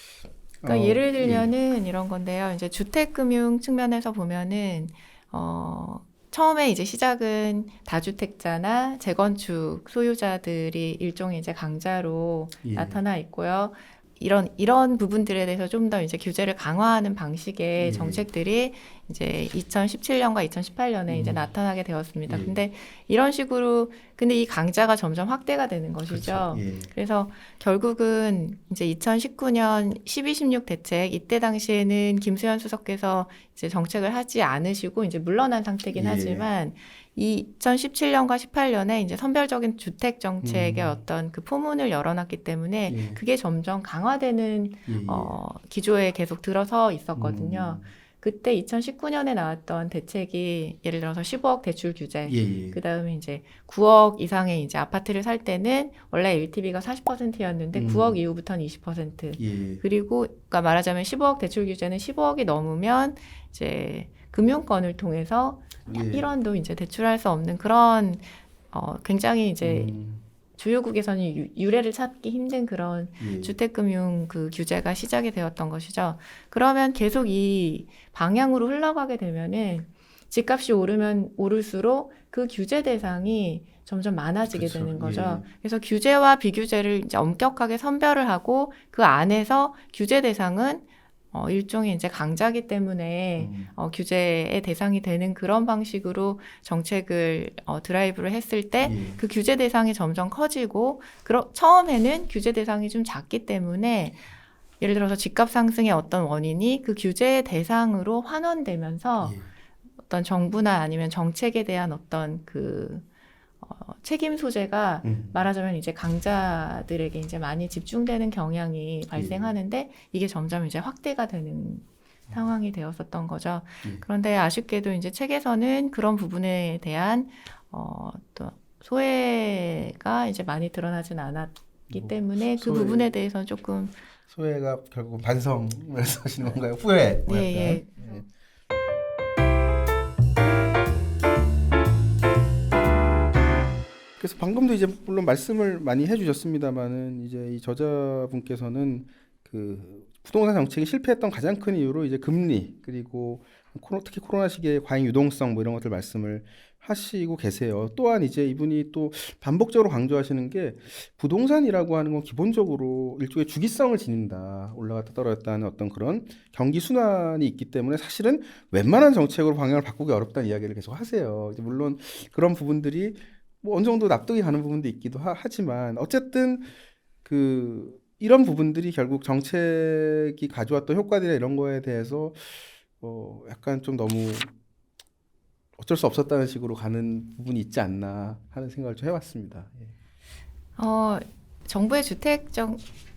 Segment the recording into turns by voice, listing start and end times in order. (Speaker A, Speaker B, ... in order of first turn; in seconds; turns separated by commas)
Speaker A: 0.6-1.5, Speaker B: 0.7-69.9, Speaker A: 12.6-13.0, Speaker A: 17.8-18.2, Speaker A: 21.1-21.4, Speaker A: 22.3-22.6, Speaker A: 26.1-26.9, Speaker A: 35.9-36.5, Speaker A: 40.4-41.0, Speaker A: 42.9-43.2, Speaker A: 44.9-45.3, Speaker A: 47.1-47.9, Speaker A: 52.3-52.8, Speaker A: 57.7-58.2, Speaker A: 59.4-59.8, Speaker A: 65.9-66.3, Speaker A: 69.6-70.2, Speaker B: 70.6-104.2, Speaker A: 73.2-73.5, Speaker A: 84.5-85.5, Speaker A: 93.4-93.7, Speaker A: 98.8-99.2, Speaker B: 104.8-109.4, Speaker A: 109.2-109.5, Speaker B: 110.1-113.0, Speaker B: 113.6-134.0, Speaker A: 115.0-115.5, Speaker A: 119.1-119.5, Speaker A: 131.9-133.1, Speaker A: 134.3-138.2, Speaker B: 137.3-138.2, Speaker A: 144.2-176.7, Speaker A: 177.2-184.5, Speaker A: 185.8-189.9, Speaker B: 190.8-192.8